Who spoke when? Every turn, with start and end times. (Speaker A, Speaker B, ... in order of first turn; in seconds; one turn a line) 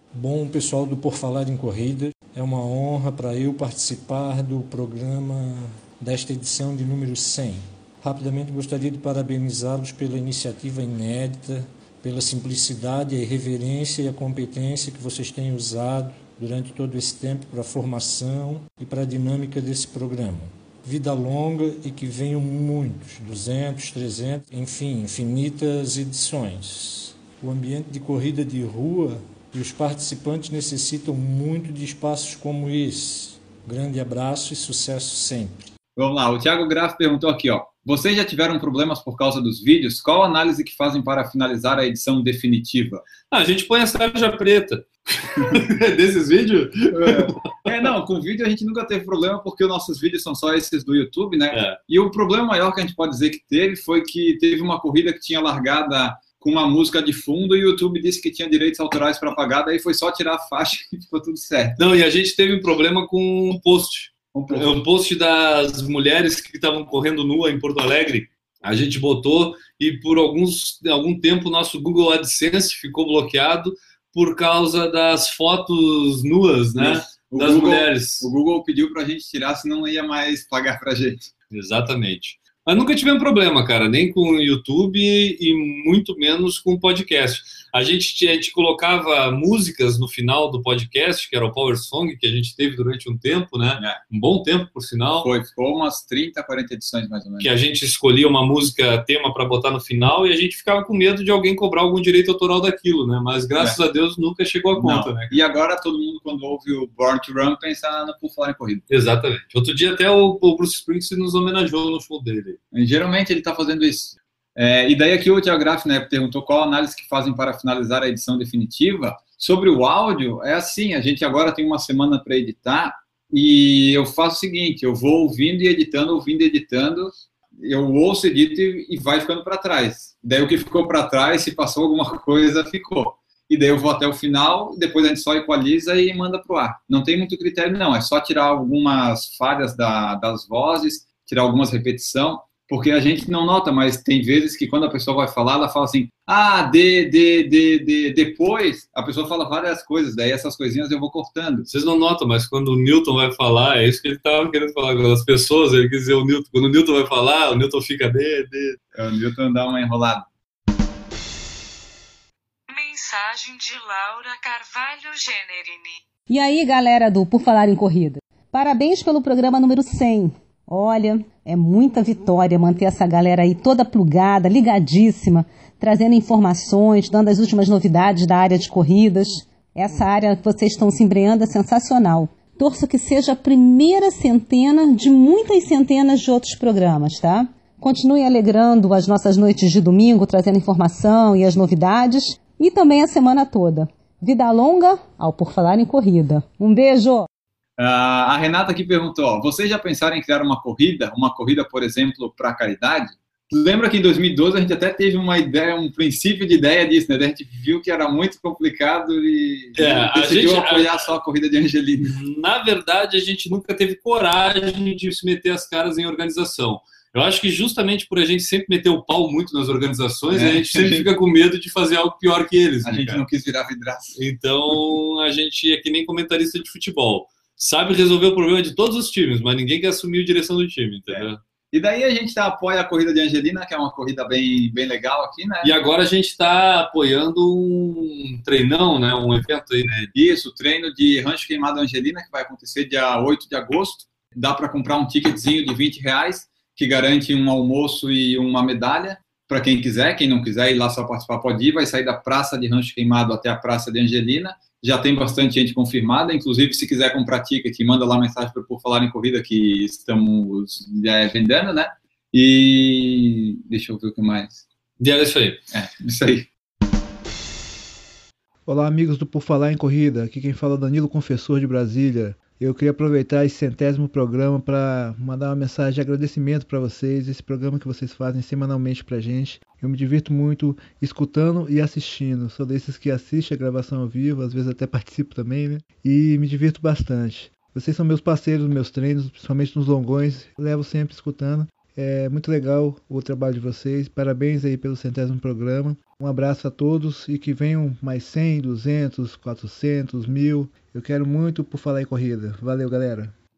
Speaker A: 0.1-35.7
Speaker B: 36.0-43.0
Speaker C: 43.3-47.3
Speaker B: 46.9-61.8
Speaker C: 51.5-51.8
Speaker C: 61.8-78.3
Speaker B: 64.3-64.8
Speaker B: 76.8-81.3
Speaker C: 81.5-95.3
Speaker B: 95.2-97.5
Speaker C: 97.4-105.4
Speaker B: 104.8-108.8
Speaker C: 108.9-112.6
Speaker B: 112.7-151.7
Speaker C: 151.7-158.8
Speaker B: 158.9-160.3
Speaker D: 162.7-166.0
Speaker E: 166.3-197.3
Speaker B: 197.8-212.2
Speaker C: 209.8-211.1
Speaker C: 212.1-223.2
Speaker B: 220.3-221.1
Speaker B: 222.8-224.2
Speaker C: 224.2-231.4
Speaker B: 231.1-235.7
Speaker C: 235.6-240.1
Speaker B: 240.1-264.6
Speaker C: 265.0-265.6
Speaker B: 265.7-266.5
Speaker F: 268.7-303.3